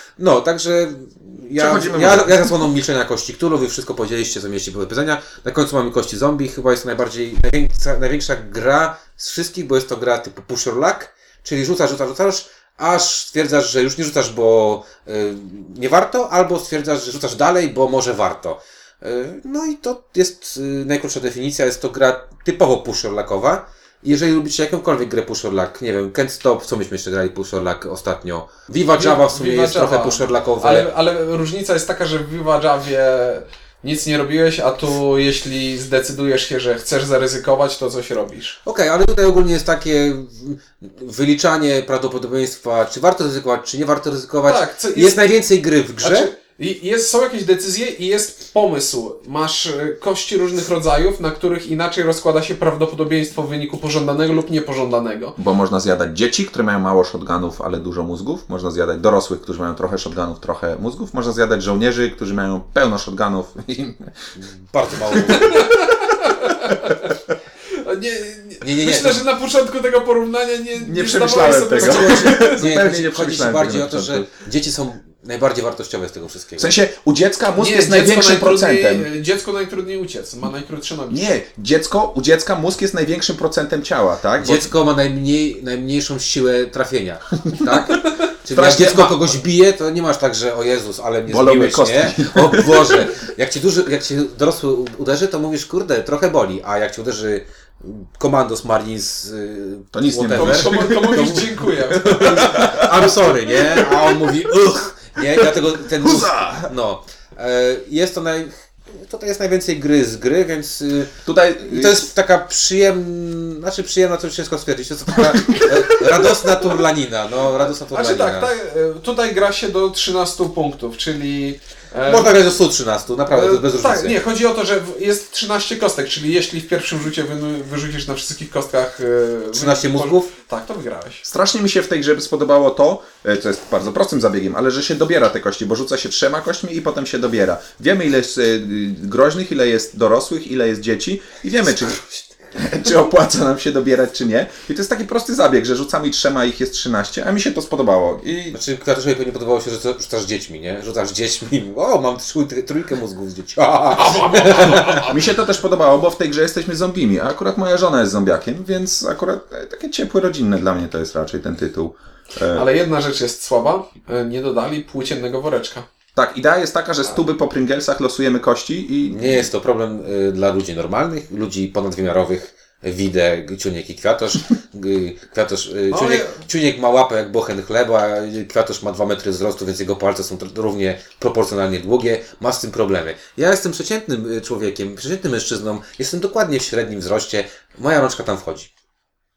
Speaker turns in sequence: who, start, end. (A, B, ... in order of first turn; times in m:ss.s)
0:00.2-0:30.9 A
0:01.5-0:02.6 B
0:28.9-0:38.6 C
0:38.6-0:46.3 A
0:44.4-0:45.4 C
0:46.0-0:55.4 C
0:55.4-1:04.2 B
1:04.4-1:05.7 A
1:05.1-1:05.4 B
1:05.3-1:07.1 C
1:07.7-1:12.8 C
1:08.6-1:09.2 A
1:10.8-1:14.3 B
1:11.7-1:16.7 A
1:16.6-1:19.1 B
1:17.5-1:21.3 C
1:21.1-1:24.7 B
1:24.4-1:58.5 A
1:27.5-1:27.9 B
1:28.5-1:29.4 B
1:31.3-1:33.1 B
1:39.9-1:44.2 B
1:40.3-1:42.7 C
1:45.9-1:46.7 B
1:51.2-1:52.1 B
1:57.7-2:02.4 C
2:02.0-2:04.2 A
2:03.3-2:11.2 C
2:09.5-2:10.3 A
2:11.2-2:22.0 B
2:22.5-2:28.6 B
2:28.5-2:35.1 A
2:33.9-2:35.3 C
2:35.1-2:42.7 B
2:42.5-2:45.9 C
2:46.1-2:49.5 B
2:49.1-3:08.7 A
2:55.9-2:56.4 C